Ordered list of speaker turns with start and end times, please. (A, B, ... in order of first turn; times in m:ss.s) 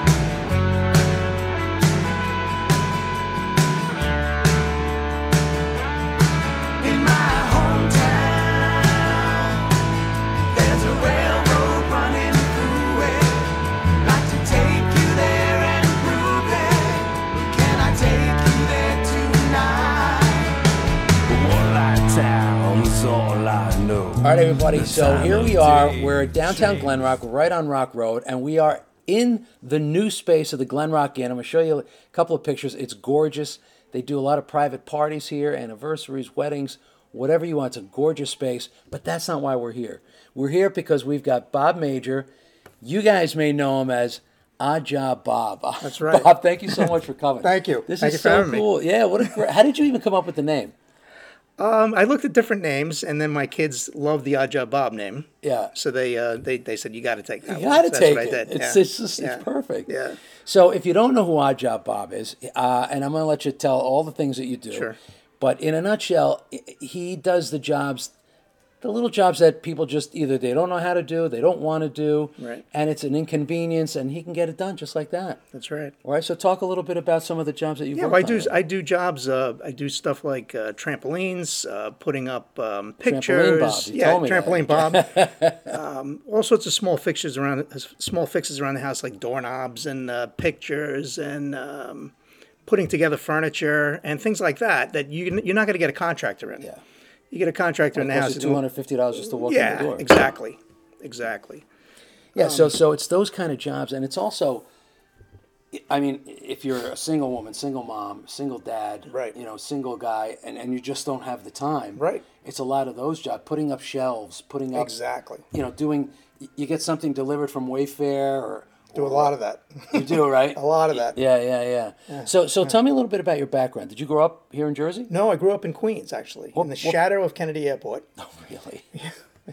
0:06.8-0:09.7 A
0:10.5-0:20.7 A
0:21.3-0:27.0 A
0:24.2-0:42.3 B
0:42.8-0:50.7 B
0:45.8-0:46.9 C
0:47.4-0:48.7 C
0:51.6-1:00.2 C
0:55.4-0:55.7 B
0:57.5-0:59.9 B
1:00.4-1:08.1 B
1:04.7-1:05.0 C
1:08.8-1:15.4 B
1:12.4-1:12.6 C
1:15.5-1:16.0 C
1:16.0-1:18.6 B
1:18.0-1:32.1 C
1:23.0-1:25.7 B
1:32.7-1:36.7 C
1:37.3-1:38.6 C
1:38.0-1:40.1 B
1:39.2-1:41.7 C
1:42.4-1:44.6 B
1:42.4-1:42.8 C
1:45.7-1:54.9 B
1:49.1-1:49.4 C
1:52.0-1:52.3 C
1:54.7-1:55.5 C
1:55.5-1:59.3 B
1:59.0-2:01.2 C
1:59.9-2:05.1 B
2:02.1-2:02.7 C
2:05.1-2:08.1 C
2:06.6-2:07.0 B
2:08.2-2:08.9 B